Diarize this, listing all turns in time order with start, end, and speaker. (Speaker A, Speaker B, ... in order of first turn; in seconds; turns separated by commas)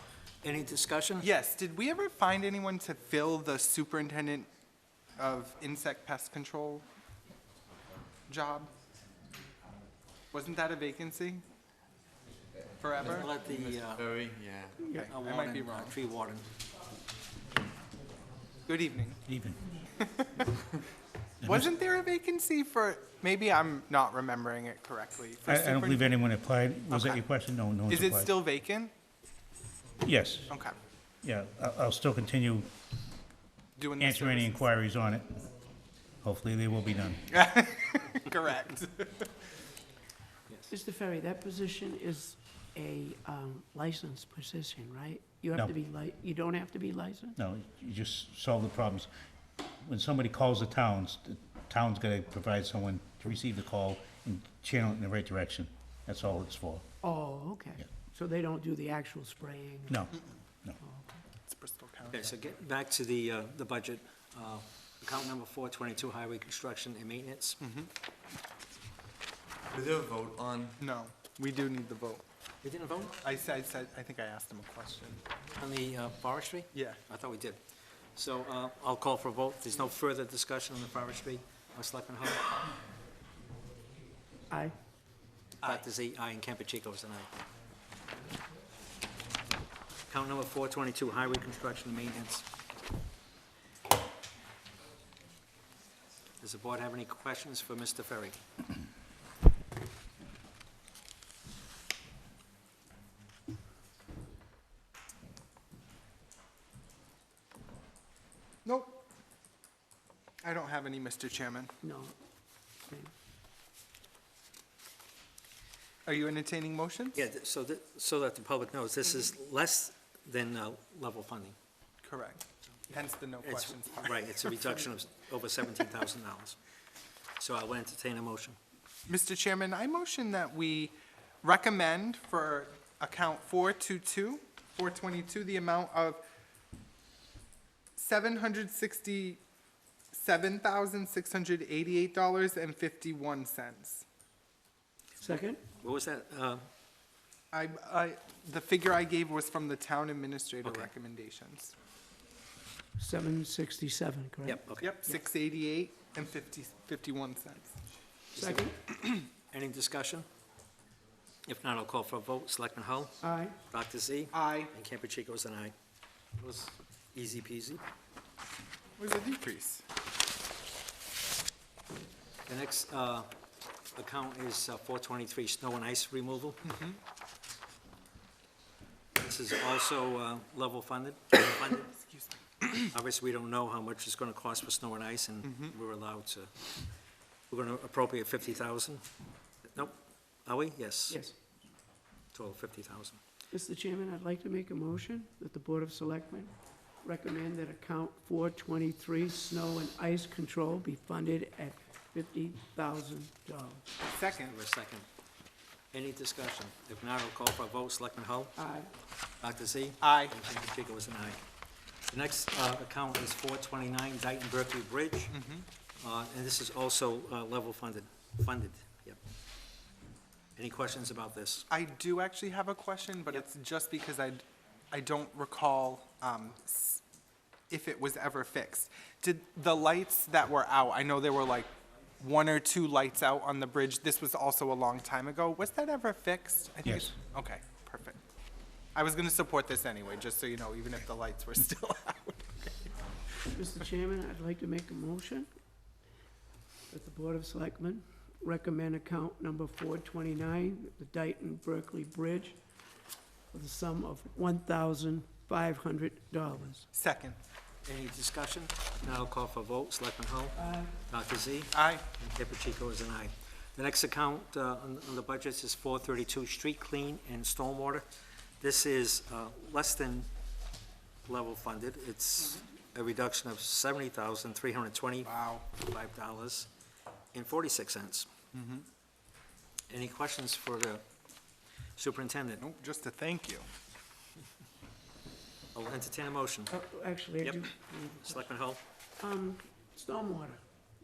Speaker A: 0.4-1.3, Speaker B: 1.2-4.5, Speaker B: 5.2-6.8, Speaker B: 8.3-8.7, Speaker B: 10.3-11.4, Speaker B: 12.8-13.3, Speaker A: 13.0-14.1, Speaker C: 13.0-14.8, Speaker B: 14.8-16.0, Speaker A: 15.1-16.5, Speaker B: 18.6-19.2, Speaker D: 19.2-19.7, Speaker B: 20.0-20.5, Speaker B: 21.4-26.1, Speaker D: 25.5-28.3, Speaker B: 26.9-27.2, Speaker B: 27.9-28.9, Speaker D: 30.0-30.5, Speaker B: 30.5-30.8, Speaker D: 31.2-32.7, Speaker B: 33.8-34.7, Speaker D: 34.0-35.3, Speaker D: 36.2-37.3, Speaker B: 37.3-39.3, Speaker E: 40.7-47.4, Speaker D: 47.4-49.1, Speaker D: 49.8-56.9, Speaker E: 57.0-60.1, Speaker D: 59.9-60.8, Speaker E: 60.8-61.2, Speaker B: 61.5-62.4, Speaker A: 62.1-67.6, Speaker B: 67.6-67.9, Speaker C: 69.7-70.8, Speaker B: 70.8-72.2, Speaker A: 72.6-73.2, Speaker B: 73.2-75.2, Speaker A: 75.6-77.6, Speaker B: 76.7-77.0, Speaker A: 78.2-82.5, Speaker E: 84.5-84.8, Speaker A: 85.6-87.3, Speaker A: 90.1-92.5, Speaker A: 96.4-98.4, Speaker B: 108.7-109.0, Speaker B: 110.4-111.7, Speaker E: 111.8-112.1, Speaker B: 116.1-117.2, Speaker A: 117.2-121.6, Speaker B: 122.0-124.5, Speaker A: 123.4-126.6, Speaker A: 127.4-128.6, Speaker B: 129.1-136.2, Speaker B: 138.0-139.4, Speaker B: 140.1-144.1, Speaker E: 145.2-145.6, Speaker A: 145.8-146.6, Speaker B: 147.5-151.8, Speaker A: 150.6-150.9, Speaker E: 153.0-155.2, Speaker A: 154.4-154.9, Speaker B: 154.8-157.8, Speaker A: 158.3-158.7, Speaker E: 158.4-158.8, Speaker A: 159.5-160.3, Speaker A: 161.5-165.7, Speaker E: 163.2-163.6, Speaker B: 164.3-164.7, Speaker A: 166.4-167.8, Speaker B: 169.0-169.8, Speaker A: 172.5-173.3, Speaker A: 174.0-176.7, Speaker B: 176.7-177.0, Speaker A: 179.2-181.9, Speaker B: 181.9-182.9, Speaker A: 182.9-186.5, Speaker B: 185.4-185.7, Speaker A: 187.5-189.0, Speaker A: 189.7-191.2, Speaker E: 191.1-191.3, Speaker A: 192.3-193.2, Speaker E: 193.5-203.8, Speaker B: 204.0-204.6, Speaker A: 204.3-205.1, Speaker A: 205.9-208.6, Speaker E: 208.6-208.9, Speaker A: 209.4-211.4, Speaker B: 210.0-210.4, Speaker A: 212.1-215.3, Speaker B: 215.3-215.7, Speaker A: 216.0-219.2, Speaker A: 220.6-221.7, Speaker B: 221.7-227.0, Speaker B: 227.7-238.2, Speaker D: 236.8-237.1, Speaker B: 238.9-242.9, Speaker E: 243.5-245.5, Speaker E: 246.9-252.6, Speaker E: 253.5-256.9, Speaker B: 256.9-257.4, Speaker A: 257.9-268.1, Speaker E: 260.6-260.9, Speaker B: 261.7-262.1, Speaker A: 268.6-270.3, Speaker A: 271.3-276.7, Speaker B: 275.2-275.6, Speaker A: 277.3-278.3, Speaker B: 278.5-278.9, Speaker A: 279.9-281.0, Speaker A: 282.0-282.6, Speaker B: 282.6-283.7, Speaker A: 285.7-286.8, Speaker E: 286.7-288.4, Speaker A: 288.2-288.8, Speaker E: 289.2-290.6